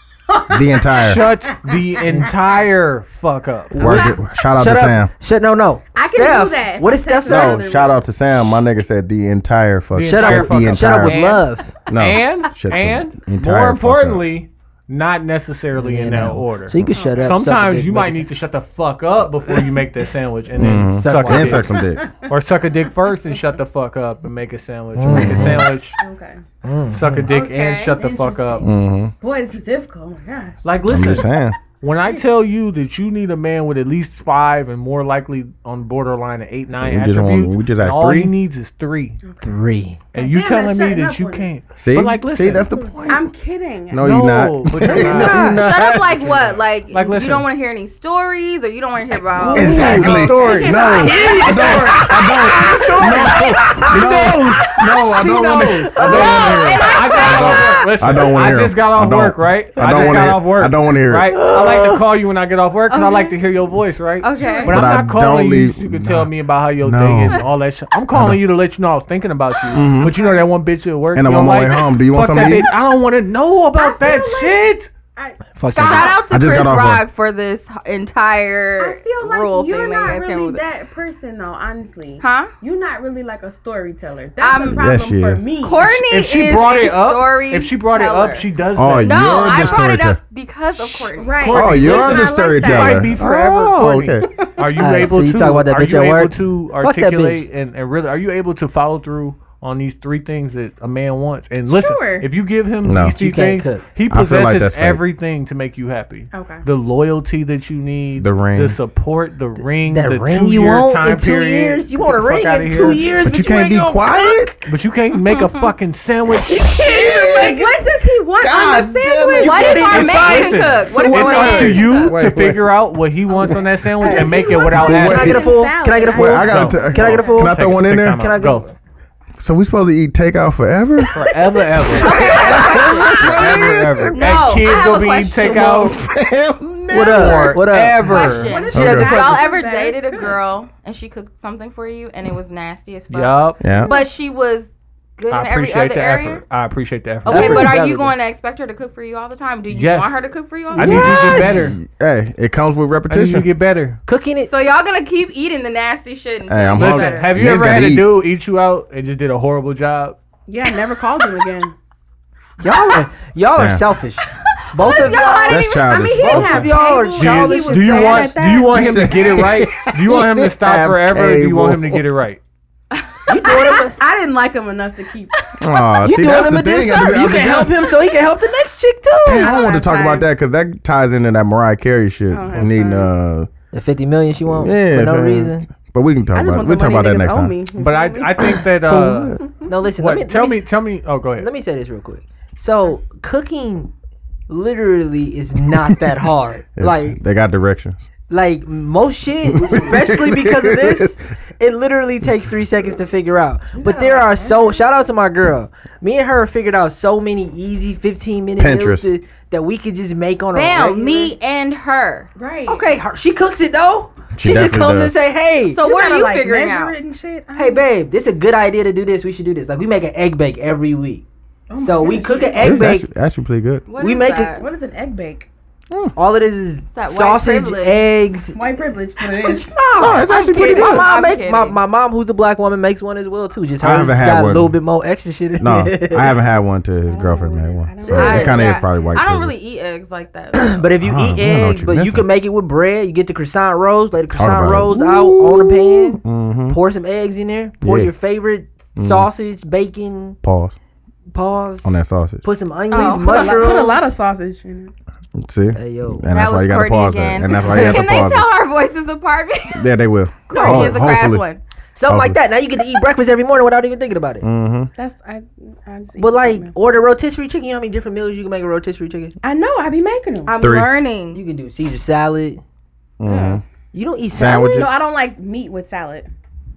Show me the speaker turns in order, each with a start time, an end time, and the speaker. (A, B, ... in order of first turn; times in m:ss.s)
0:00.4-0:01.2 A
0:00.5-0:01.2 B
0:01.0-0:04.1 C
0:02.1-0:02.3 D
0:03.7-0:07.6 D
0:03.8-0:05.1 B
0:05.9-0:08.0 A
0:07.3-0:11.2 B
0:09.9-0:21.7 C
0:10.0-0:11.7 D
0:11.9-0:14.3 B
0:15.8-0:18.3 D
0:16.9-0:17.4 A
0:20.6-0:21.7 D
0:20.6-0:22.0 B
0:21.8-0:22.3 A
0:22.3-0:26.0 C
0:25.0-0:25.8 D
0:25.1-0:25.7 B
0:26.0-0:26.4 A
0:26.6-0:27.3 D
0:26.9-0:28.7 C
0:27.3-0:28.0 E
0:28.0-0:30.6 A
0:28.6-0:29.1 B
0:30.6-0:31.3 C
0:30.9-0:31.6 B
0:31.8-0:39.2 C
0:32.0-0:32.2 A
0:36.8-0:38.3 B
0:39.2-0:39.5 A
0:39.4-0:40.0 D
0:40.1-0:41.6 A
0:40.1-0:43.2 C
0:41.8-0:43.3 B
0:42.8-0:44.2 A
0:43.9-0:46.3 B
0:44.0-0:45.6 C
0:44.9-0:49.8 E
0:46.2-0:47.5 C
0:49.3-1:14.9 C
0:49.5-0:52.3 A
0:49.5-0:50.3 D
0:49.5-1:01.4 B
0:51.0-0:54.4 D
0:56.1-0:57.8 A
0:56.7-0:57.3 D
0:56.8-0:57.5 E
1:01.3-1:02.0 D
1:02.9-1:03.4 E
1:04.2-1:04.7 E
1:04.4-1:04.8 A
1:04.6-1:07.4 B
1:08.1-1:08.4 B
1:09.7-1:10.2 B
1:11.1-1:12.7 B
1:13.8-1:16.2 A
1:15.6-1:16.2 D
1:15.7-1:20.6 E
1:16.3-1:17.0 B
1:18.8-1:25.9 A
1:22.2-1:22.5 E
1:24.4-1:24.9 E
1:24.7-1:25.4 B
1:25.6-1:28.4 E
1:25.8-1:29.8 C
1:28.8-1:30.2 B
1:29.0-1:32.3 E
1:31.0-1:33.2 A
1:31.5-1:53.2 C
1:31.5-1:34.3 B
1:34.8-1:37.4 D
1:41.7-1:42.3 A
1:42.8-1:43.2 B
1:43.2-1:43.9 D
1:44.1-1:45.0 B
1:46.3-1:46.7 A
1:48.2-1:48.8 B
1:49.9-1:54.6 D
1:53.2-1:54.7 B
1:54.7-1:56.9 C
1:55.3-1:55.7 E
1:56.5-1:57.8 B
1:56.8-2:00.7 A
1:58.4-2:00.0 B
1:59.4-2:02.2 E
1:59.4-2:00.6 D
1:59.7-2:05.4 C
2:00.8-2:02.6 B
2:03.4-2:07.5 A
2:04.0-2:07.5 D
2:04.8-2:05.4 B
2:06.1-2:08.3 B
2:06.4-2:08.7 C
2:08.1-2:08.7 D
2:09.4-2:11.2 B
2:11.1-2:12.4 C
2:11.8-2:12.6 D
2:12.0-2:14.3 B
2:12.0-2:13.4 E
2:13.1-2:16.0 C
2:14.1-2:16.0 E
2:15.5-2:17.6 B
2:16.9-2:19.4 D
2:17.0-2:18.6 C
2:18.0-2:26.4 E
2:18.4-2:20.4 A
2:18.7-2:19.2 B
2:23.1-2:23.6 C
2:23.6-2:23.9 B
2:23.8-2:24.1 A
2:25.3-2:27.8 C
2:27.3-2:28.1 D
2:27.3-2:31.5 E
2:29.7-2:30.2 C
2:30.7-2:31.8 C
2:30.8-2:31.8 D
2:31.0-2:33.5 B
2:33.1-2:34.0 C
2:34.0-2:34.5 D
2:34.5-2:37.6 E
2:36.5-2:38.1 B
2:36.8-2:40.2 C
2:40.5-2:41.8 A
2:42.6-2:45.6 D
2:42.6-2:43.0 E
2:43.5-2:43.8 B
2:44.7-2:46.1 E
2:44.8-2:49.0 A
2:45.5-2:46.7 B
2:46.2-2:48.4 D
2:47.2-2:52.4 C
2:48.7-2:52.0 B
2:53.0-2:53.7 E
2:53.3-2:54.0 D
2:53.5-2:55.6 A
2:55.6-2:57.8 B
2:56.0-2:59.6 D
2:59.3-3:03.5 B
2:59.4-3:00.3 A
3:02.3-3:03.1 A
3:03.7-3:05.7 D
3:04.5-3:07.6 B
3:06.3-3:08.6 A
3:07.8-3:11.5 C
3:08.8-3:09.4 B
3:09.6-3:10.7 D
3:11.4-3:13.9 D
3:14.5-3:17.2 D
3:16.8-3:18.1 B
3:18.3-3:31.3 D
3:19.5-3:21.2 B
3:23.8-3:24.9 A
3:28.6-3:29.1 B
3:30.5-3:32.3 E
3:32.4-3:32.9 A
3:32.7-3:35.8 D
3:34.4-3:35.2 B
3:35.7-3:37.0 E
3:35.8-3:37.9 A
3:37.6-3:41.2 D
3:41.7-3:42.9 A
3:41.8-3:43.1 D
3:42.6-3:43.9 B
3:43.9-3:44.7 E
3:44.0-3:44.6 D
3:44.6-3:45.5 A
3:46.2-3:56.4 D
3:46.9-3:48.0 E
3:48.5-3:49.8 A
3:50.0-3:51.1 B
3:50.2-3:51.8 E
3:53.8-3:54.8 B
3:55.6-3:59.5 B
3:57.1-3:58.8 A
3:58.1-4:00.9 E
4:00.6-4:10.4 D
4:01.0-4:02.3 B
4:04.3-4:06.8 B
4:07.8-4:08.1 B
4:09.0-4:09.3 B
4:10.4-4:10.8 B
4:11.3-4:14.2 D
4:11.8-4:12.4 B
4:12.9-4:13.9 E
4:13.0-4:14.9 A
4:15.4-4:18.5 B
4:15.8-4:16.3 D
4:16.3-4:19.9 E
4:17.6-4:18.1 D
4:19.7-4:21.4 B
4:20.5-4:21.6 E
4:20.5-4:21.0 D
4:22.0-4:24.5 D
4:22.1-4:22.4 B
4:24.4-4:24.9 B
4:25.0-4:26.8 A
4:26.2-4:29.4 D
4:29.4-4:30.6 A
4:30.5-4:31.4 E
4:30.6-4:30.9 B
4:31.3-4:32.6 D
4:33.2-4:33.6 B
4:33.2-4:33.6 A
4:33.9-4:35.0 D
4:34.3-4:35.0 B
4:34.6-4:36.3 A